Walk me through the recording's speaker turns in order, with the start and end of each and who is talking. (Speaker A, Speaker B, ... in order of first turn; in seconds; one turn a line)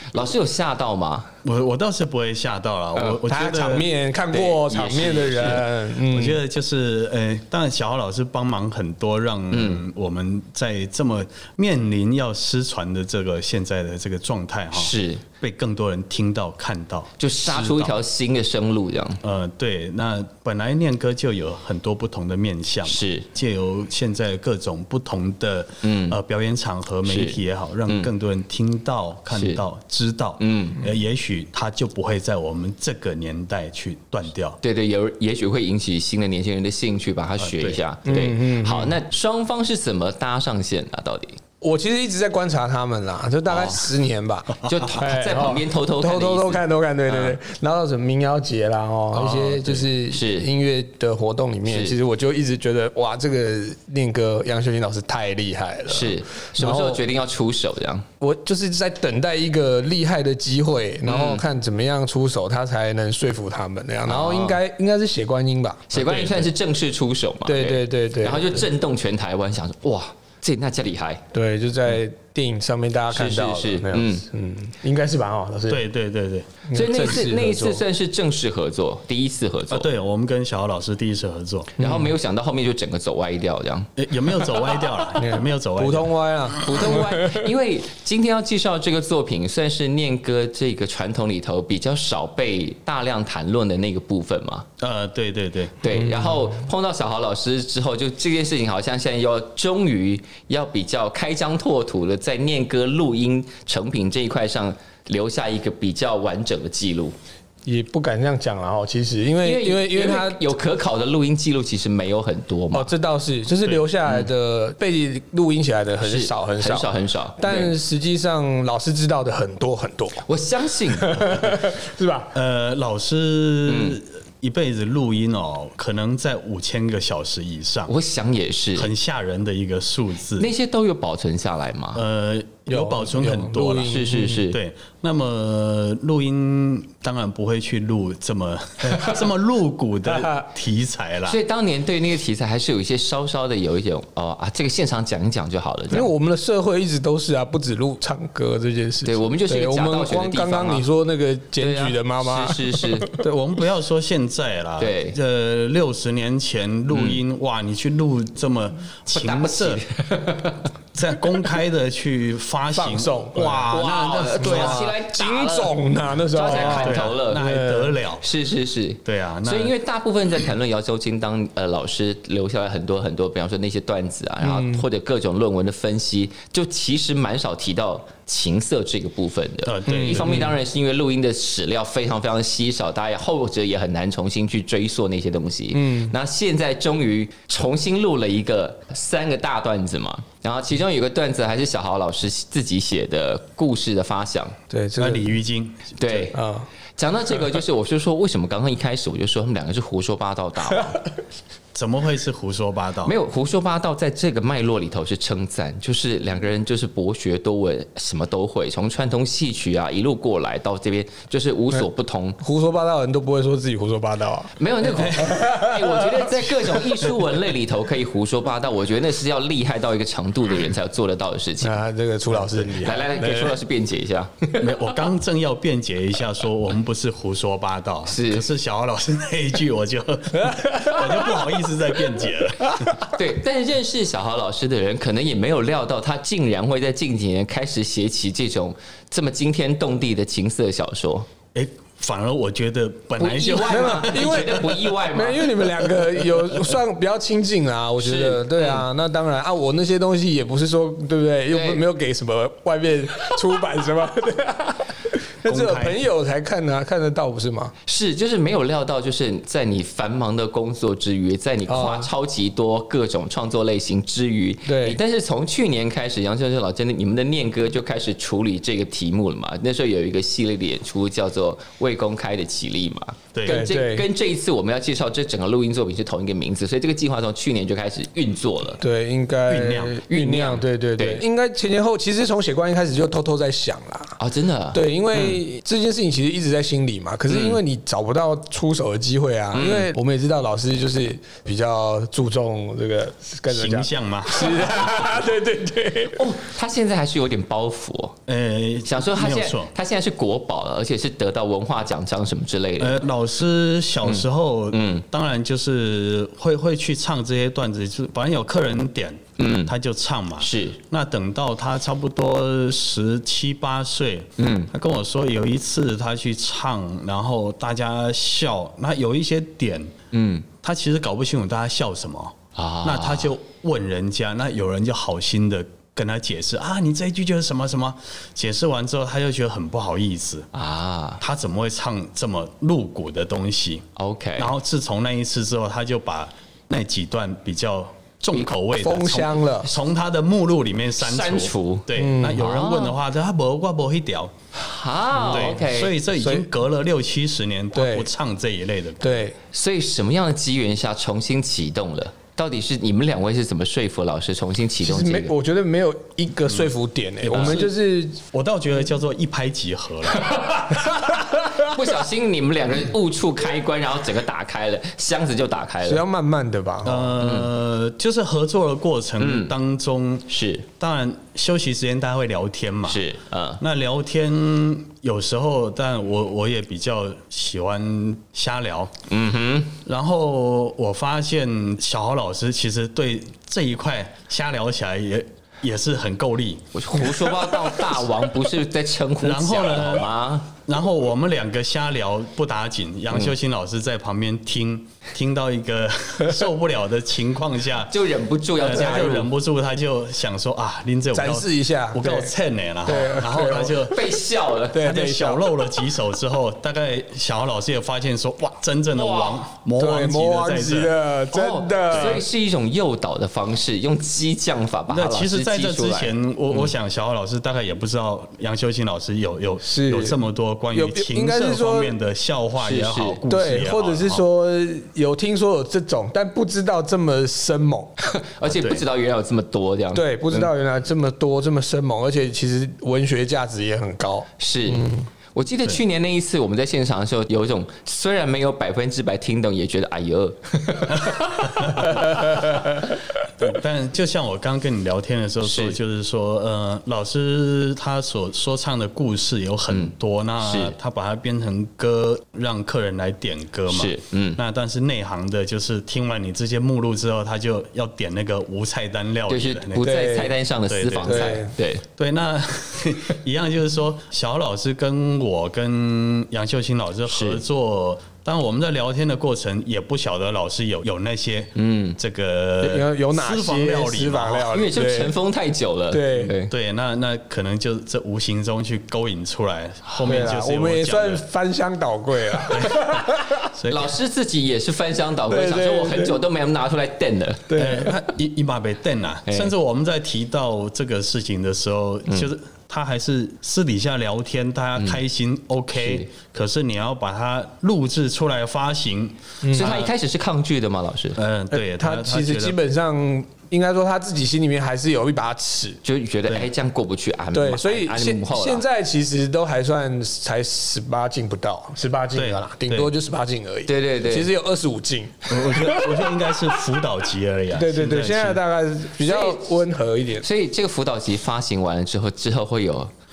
Speaker A: 0.1-1.3
Speaker B: 1.4-3.9
Speaker C: 3.3-6.4
Speaker A: 4.3-5.6
Speaker B: 6.1-18.0
Speaker A: 9.5-9.8
Speaker A: 14.7-15.2
Speaker A: 17.2-19.2
Speaker B: 19.2-34.6
Speaker A: 22.9-23.3
Speaker A: 25.8-26.2
Speaker A: 27.1-28.1
Speaker A: 29.3-29.6
Speaker A: 30.4-30.8
Speaker A: 34.6-41.4
Speaker B: 37.4-37.8
Speaker C: 38.0-39.0
Speaker C: 41.6-57.0
Speaker A: 43.5-43.9
Speaker A: 44.6-47.4
Speaker B: 49.1-49.8
Speaker A: 50.1-50.5
Speaker A: 51.7-52.0
Speaker A: 55.9-58.0
Speaker C: 58.2-66.0
Speaker A: 61.1-61.4
Speaker A: 64.1-64.6
Speaker A: 65.9-71.2
Speaker B: 66.0-66.3
Speaker C: 67.5-68.7
Speaker C: 71.3-75.8
Speaker A: 73.1-74.2
Speaker B: 75.7-76.6
Speaker C: 76.7-77.8
Speaker A: 76.7-79.9
Speaker B: 79.7-81.7
Speaker A: 81.8-83.9
Speaker C: 81.8-82.1
Speaker B: 84.0-86.8
Speaker C: 85.2-87.5
Speaker A: 86.6-94.7
Speaker B: 94.8-95.8
Speaker A: 95.8-107.2
Speaker C: 95.9-96.6
Speaker C: 107.7-110.5
Speaker A: 109.4-112.9
Speaker C: 112.7-120.2
Speaker A: 116.0-117.7
Speaker A: 120.3-121.3
Speaker C: 120.9-122.3
Speaker B: 122.3-127.9
Speaker A: 123.7-124.0
Speaker A: 127.9-128.9
Speaker B: 128.8-130.5
Speaker A: 130.4-132.0
Speaker B: 131.9-141.4
Speaker C: 132.7-134.4
Speaker A: 133.9-134.6
Speaker C: 140.1-140.5
Speaker A: 141.3-146.1
Speaker C: 145.9-153.2
Speaker A: 149.1-150.8
Speaker A: 151.6-153.1
Speaker B: 153.2-159.8
Speaker A: 154.8-155.2
Speaker A: 156.9-157.2
Speaker A: 159.1-160.6
Speaker B: 160.9-164.9
Speaker C: 162.8-168.0
Speaker A: 163.7-165.8
Speaker A: 166.3-167.4
Speaker B: 166.4-168.2
Speaker A: 168.2-194.6
Speaker B: 169.1-169.7
Speaker C: 174.4-174.8
Speaker B: 179.7-180.5
Speaker C: 179.9-180.5
Speaker C: 185.7-186.1
Speaker C: 194.7-195.3
Speaker B: 195.0-195.9
Speaker A: 196.0-196.4
Speaker C: 196.3-196.7
Speaker A: 197.0-201.0
Speaker B: 201.7-203.2
Speaker A: 203.1-212.4
Speaker C: 212.4-216.7
Speaker A: 214.6-221.7
Speaker B: 214.9-215.4
Speaker C: 221.6-223.6
Speaker A: 222.7-224.3
Speaker B: 224.6-232.9
Speaker A: 228.1-228.4
Speaker C: 230.5-231.2
Speaker A: 233.1-241.3
Speaker B: 241.5-244.6
Speaker A: 243.2-245.7
Speaker C: 243.6-257.7
Speaker A: 248.0-248.8
Speaker A: 251.5-251.8
Speaker B: 255.4-256.0
Speaker A: 257.9-278.8
Speaker C: 261.7-262.1
Speaker C: 264.7-265.0
Speaker B: 273.3-273.7
Speaker C: 273.5-274.1
Speaker C: 278.8-284.2
Speaker B: 279.5-280.0
Speaker A: 280.1-281.2
Speaker A: 284.2-285.4
Speaker C: 284.7-296.2
Speaker A: 287.3-287.6
Speaker A: 289.5-289.9
Speaker B: 293.5-294.7
Speaker A: 296.1-298.2
Speaker B: 298.3-299.7
Speaker A: 298.9-303.0
Speaker B: 302.8-319.9
Speaker A: 304.0-305.1
Speaker A: 309.4-309.7
Speaker A: 310.4-310.8
Speaker A: 314.4-314.7
Speaker A: 320.1-320.5
Speaker B: 320.6-330.5
Speaker A: 322.6-323.3
Speaker A: 330.5-331.2
Speaker B: 331.2-344.3
Speaker A: 334.0-334.5
Speaker C: 338.7-339.7
Speaker A: 341.0-343.0
Speaker C: 342.0-342.5
Speaker A: 344.5-345.9
Speaker B: 345.2-349.3
Speaker C: 345.3-345.6
Speaker C: 346.2-346.5
Speaker C: 347.8-348.1
Speaker C: 349.0-349.4
Speaker A: 349.5-355.3
Speaker C: 354.8-358.2
Speaker A: 357.2-357.7
Speaker B: 357.3-357.7
Speaker B: 358.3-360.4
Speaker A: 360.2-366.0
Speaker C: 365.9-367.1
Speaker B: 366.8-370.3
Speaker A: 367.2-367.5
Speaker A: 369.2-369.5
Speaker A: 370.3-370.7
Speaker B: 370.8-373.0
Speaker A: 372.9-373.6
Speaker B: 373.6-378.9
Speaker A: 379.1-379.8
Speaker B: 379.8-386.7
Speaker A: 386.7-390.5
Speaker B: 389.2-397.9
Speaker A: 397.9-399.3
Speaker B: 398.6-404.0
Speaker C: 401.1-402.3
Speaker C: 402.9-404.0
Speaker A: 403.9-404.8
Speaker C: 404.7-405.6
Speaker B: 404.8-410.9
Speaker A: 408.9-409.5
Speaker C: 409.8-412.3
Speaker A: 411.3-416.7
Speaker B: 414.9-424.2
Speaker C: 419.6-420.2
Speaker C: 420.7-421.9
Speaker A: 422.6-423.2
Speaker C: 423.3-427.9
Speaker A: 428.0-430.5
Speaker B: 428.5-428.8
Speaker C: 429.9-435.1
Speaker A: 434.4-441.8
Speaker B: 441.6-441.9
Speaker B: 443.4-459.9
Speaker A: 445.4-445.8
Speaker A: 449.7-450.8
Speaker A: 453.7-454.4
Speaker A: 459.3-461.9
Speaker C: 459.8-460.4
Speaker B: 460.7-461.4
Speaker C: 461.0-461.5
Speaker B: 462.0-474.5
Speaker A: 467.1-467.4
Speaker A: 471.6-472.0
Speaker C: 472.6-475.1
Speaker A: 474.5-476.5
Speaker C: 475.9-476.3
Speaker B: 476.5-481.2
Speaker C: 480.0-483.5
Speaker B: 482.5-483.0
Speaker B: 483.5-483.9
Speaker A: 483.7-487.6
Speaker C: 485.3-486.2
Speaker C: 487.5-487.9
Speaker B: 487.6-499.9
Speaker A: 495.8-496.1
Speaker C: 499.4-499.9
Speaker A: 499.5-501.2
Speaker B: 501.2-502.6
Speaker C: 501.5-505.8
Speaker A: 505.8-508.6
Speaker C: 507.3-516.3
Speaker B: 512.1-512.9
Speaker A: 513.7-514.3
Speaker B: 515.3-518.4
Speaker C: 517.5-520.2
Speaker A: 519.0-519.4
Speaker A: 520.2-522.9